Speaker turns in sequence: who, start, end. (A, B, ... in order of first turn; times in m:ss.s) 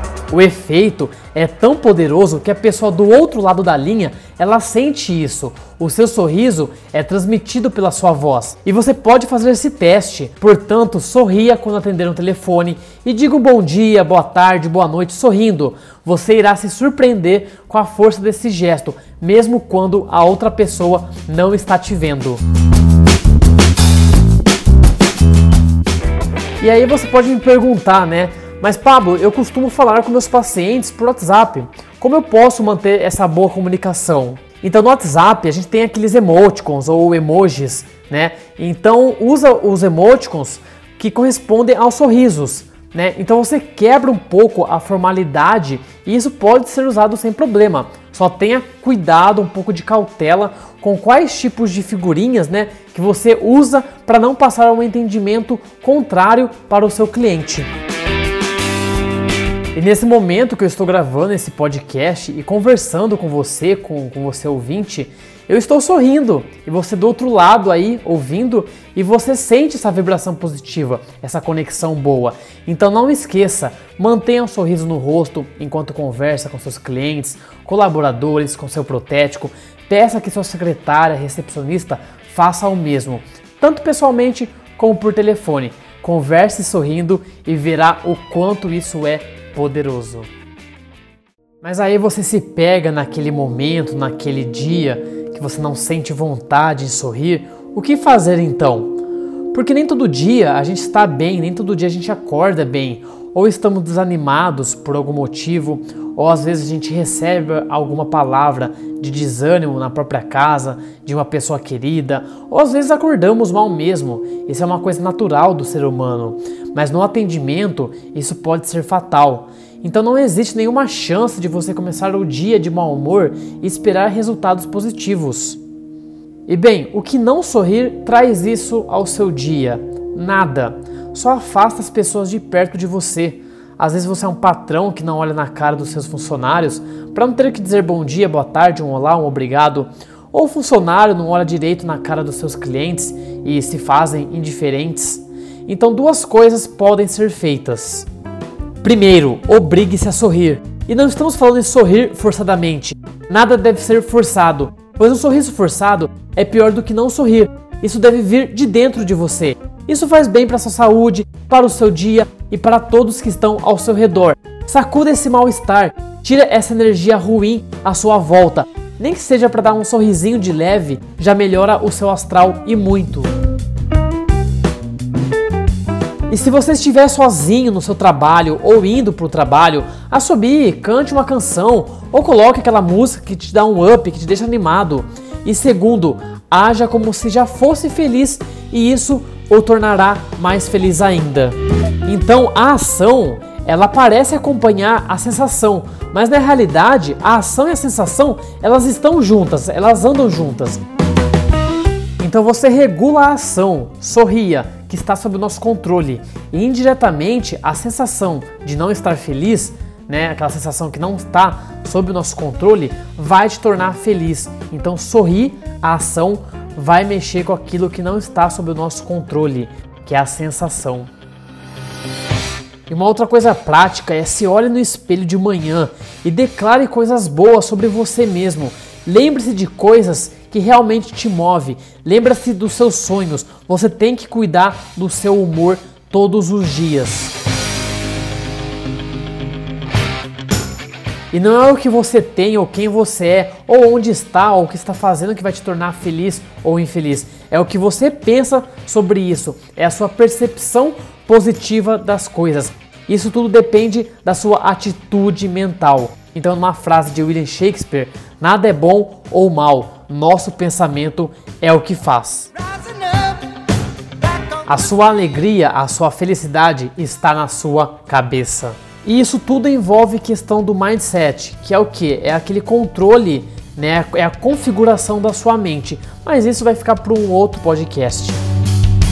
0:00.3-0:22.4 A
0:26.6-0:57.7 A
0:59.7-1:30.3 A
1:31.6-1:39.0 A
1:39.5-2:05.6 A
2:06.5-2:28.1 A
2:28.8-2:53.3 A
2:56.3-3:20.8 A
3:22.2-3:41.1 A
3:42.9-3:57.3 A
4:01.3-4:22.5 A
4:24.7-4:38.4 A